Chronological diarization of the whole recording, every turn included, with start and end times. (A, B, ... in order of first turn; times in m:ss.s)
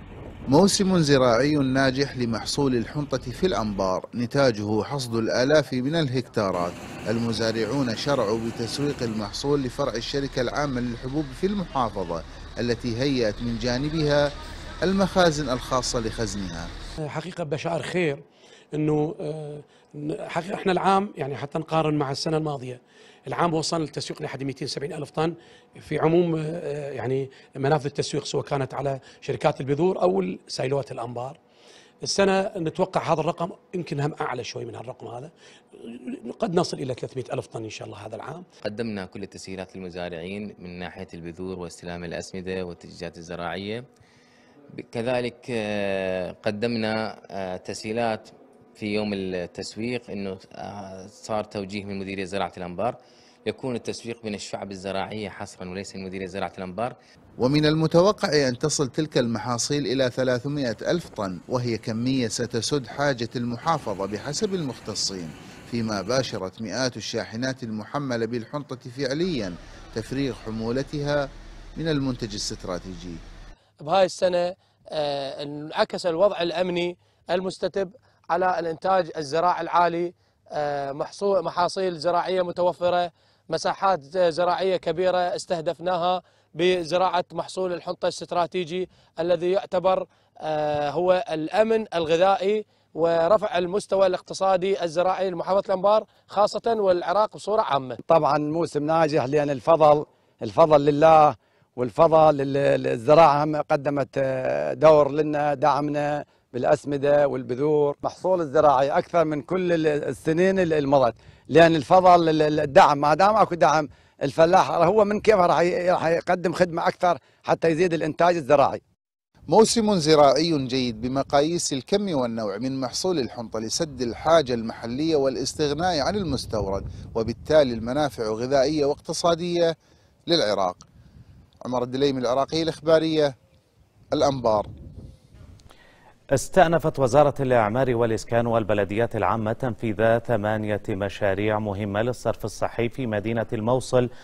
0:00.5-0:14.3 A
0:14.8-0:16.7 A
0:17.1-0:31.4 B
0:32.0-0:38.4 B
0:38.6-0:43.9 C
0:44.8-0:57.0 C
0:57.4-1:13.2 A
1:13.8-1:38.0 D
1:38.1-1:58.8 E
1:59.5-2:09.7 A
2:10.3-2:10.8 A
2:11.6-2:13.3 A
2:14.1-2:14.7 A
2:16.4-2:24.1 F